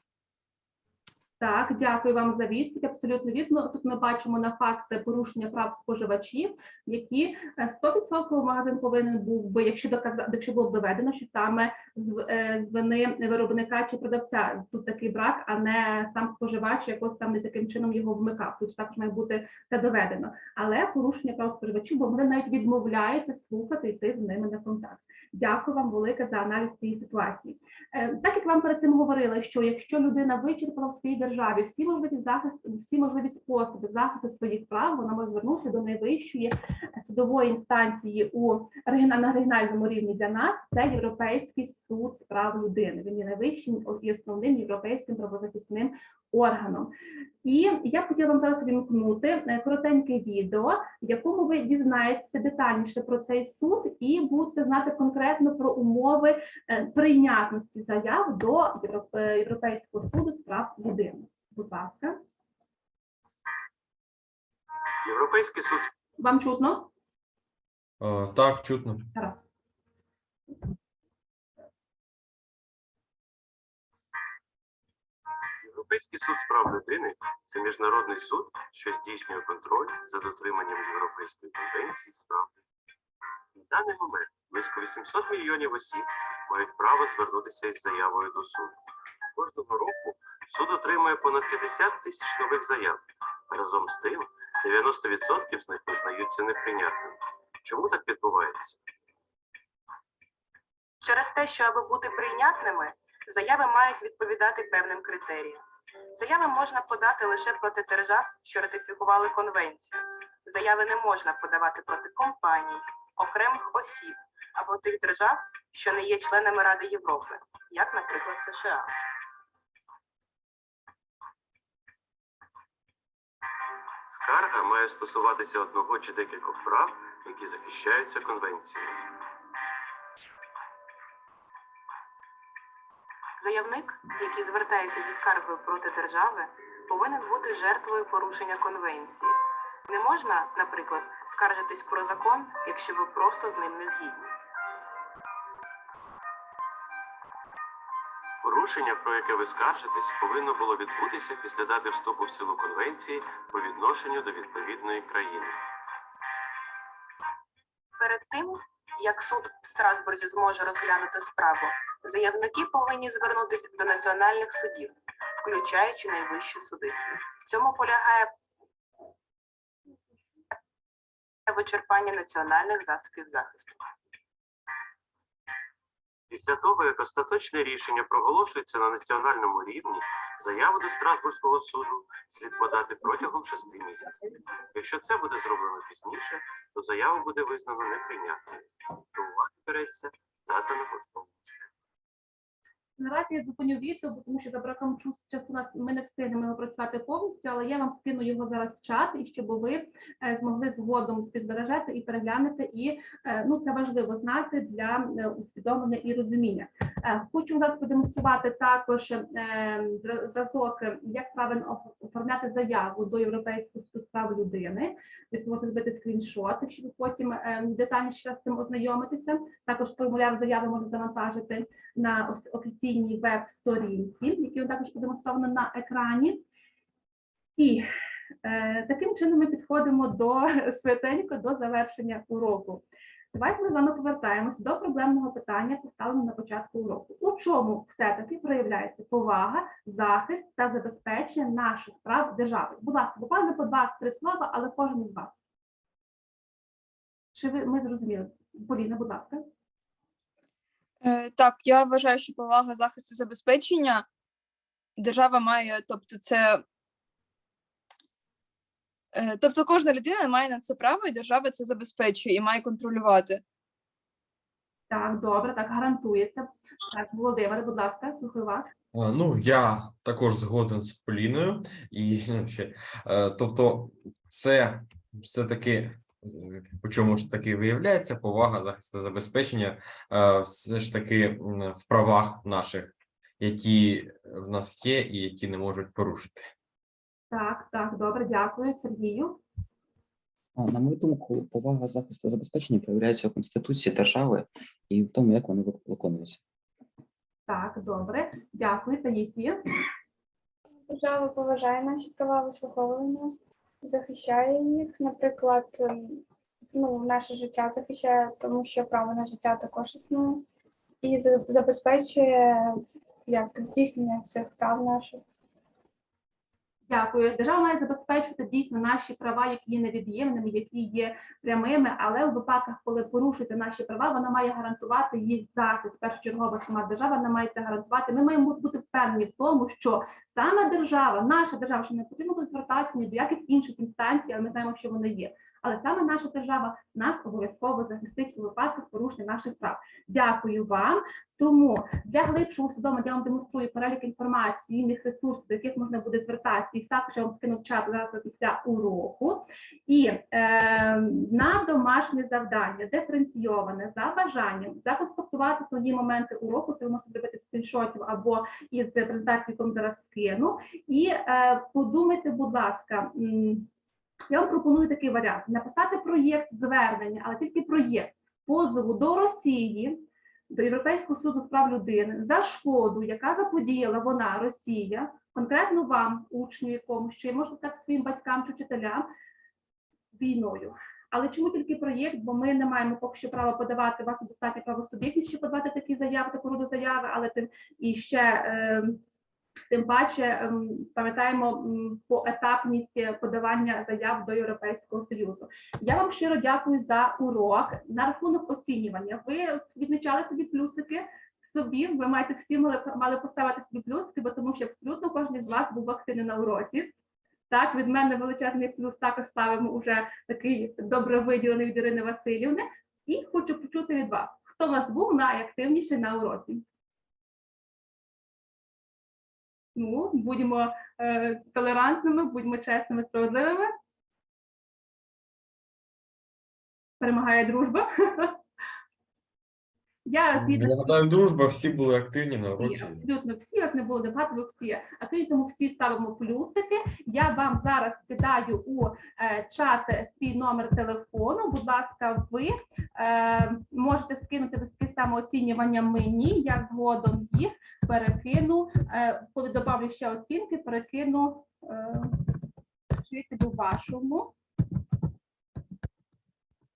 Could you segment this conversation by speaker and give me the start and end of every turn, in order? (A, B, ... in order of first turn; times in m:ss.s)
0:01.4-0:46.9 A
0:47.4-1:02.2 A
1:05.0-1:05.9 B
1:06.2-1:06.9 A
1:08.0-1:09.1 C
1:15.6-1:22.5 B
1:23.5-1:28.8 B
1:29.4-1:38.8 B
1:41.0-1:58.9 D
2:04.1-2:09.0 B
2:13.4-2:19.4 D
2:19.9-2:24.3 D
2:28.4-2:35.6 B
2:38.0-2:48.3 D
2:51.5-2:53.8 D
2:56.3-3:08.4 B
3:09.1-3:11.7 B
3:13.0-3:46.4 A
3:47.6-3:47.8 A
3:48.4-4:05.4 A
4:07.4-4:09.4 A
4:11.0-4:14.0 E
4:15.0-4:16.6 E
4:19.1-4:23.4 E
4:24.9-4:28.7 A
4:28.9-4:46.5 C
4:47.3-4:49.4 A
4:50.6-4:56.4 F
4:57.5-4:59.6 A
5:00.9-5:10.4 G
5:11.0-5:15.2 G
5:16.9-6:03.7 A
6:04.3-6:19.1 A
6:20.1-6:29.0 A
6:29.7-6:46.9 A
6:47.5-6:56.6 A
6:59.8-7:03.7 A
7:07.0-7:08.4 A
7:10.1-7:11.1 A
7:10.4-7:13.0 C
7:12.6-7:32.3 A
7:33.0-7:34.3 A